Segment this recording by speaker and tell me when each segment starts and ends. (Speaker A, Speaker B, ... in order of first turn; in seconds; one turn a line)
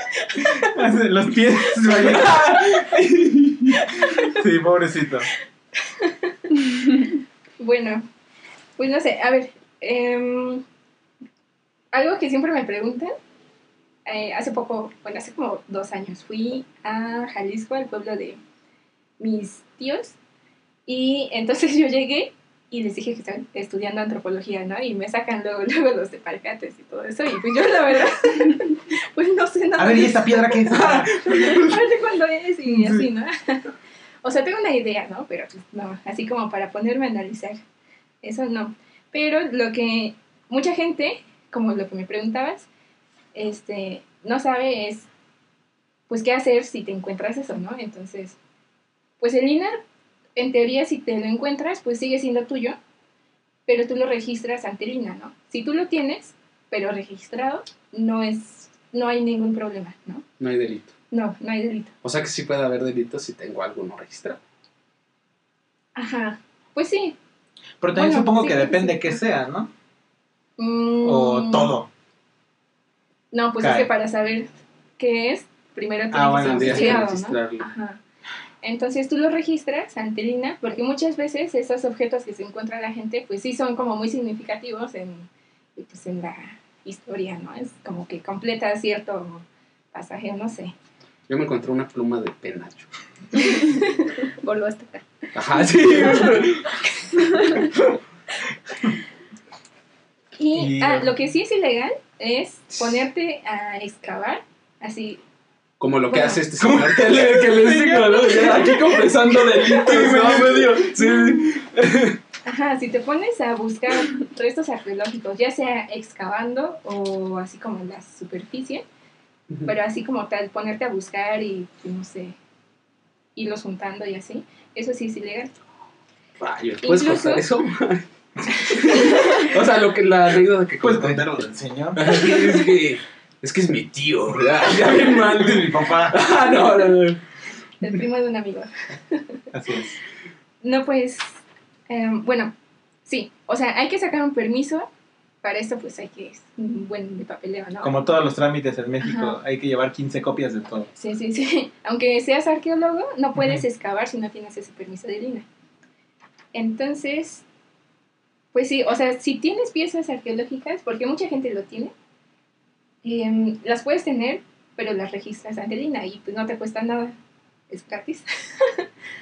Speaker A: 0.2-0.7
Speaker B: 0.4-3.0
Speaker C: 1.8-3.7
Speaker A: 3.8-4.4
Speaker B: 4.0-5.3
Speaker A: 5.8-7.1
Speaker A: 7.6-8.1
Speaker A: 8.8-10.6
Speaker A: 11.9-13.1
Speaker A: 14.1-18.4
Speaker A: 19.2-20.1
Speaker A: 20.9-37.6
Speaker B: 29.8-31.8
Speaker B: 32.6-33.1
Speaker A: 38.2-42.7
Speaker A: 43.3-45.1
Speaker A: 46.1-48.4
Speaker A: 49.2-49.8
Speaker A: 50.4-52.8
Speaker A: 53.7-60.2
Speaker C: 60.4-60.9
Speaker A: 61.1-61.9
Speaker C: 62.0-64.4
Speaker A: 66.0-67.2
Speaker B: 67.8-69.7
Speaker A: 67.9-69.3
Speaker A: 70.6-71.7
Speaker B: 71.0-71.9
Speaker A: 73.3-78.0
Speaker B: 73.6-73.9
Speaker B: 76.1-77.1
Speaker C: 76.4-77.6
Speaker A: 78.6-90.7
Speaker C: 91.3-92.9
Speaker D: 93.3-97.7
Speaker A: 93.6-94.0
Speaker C: 95.3-96.6
Speaker A: 100.4-105.2
Speaker B: 100.5-101.1
Speaker C: 105.8-112.2
Speaker A: 106.1-106.4
Speaker B: 106.6-110.8
Speaker A: 112.4-118.8
Speaker A: 119.7-122.3
Speaker A: 123.3-125.5
Speaker C: 126.4-128.0
Speaker A: 126.8-127.4
Speaker A: 128.6-129.5
Speaker C: 128.7-131.3
Speaker B: 130.8-132.4
Speaker C: 131.9-137.2
Speaker B: 135.3-136.2
Speaker A: 137.8-139.4
Speaker B: 139.5-140.0
Speaker A: 140.6-141.2
Speaker A: 141.9-142.5
Speaker A: 143.1-144.9
Speaker A: 145.4-148.1
Speaker B: 147.8-150.9
Speaker A: 149.0-149.4
Speaker A: 150.9-155.5
Speaker B: 153.3-153.6
Speaker A: 156.5-157.4
Speaker A: 158.5-161.9
Speaker A: 163.0-167.2
Speaker A: 167.7-168.8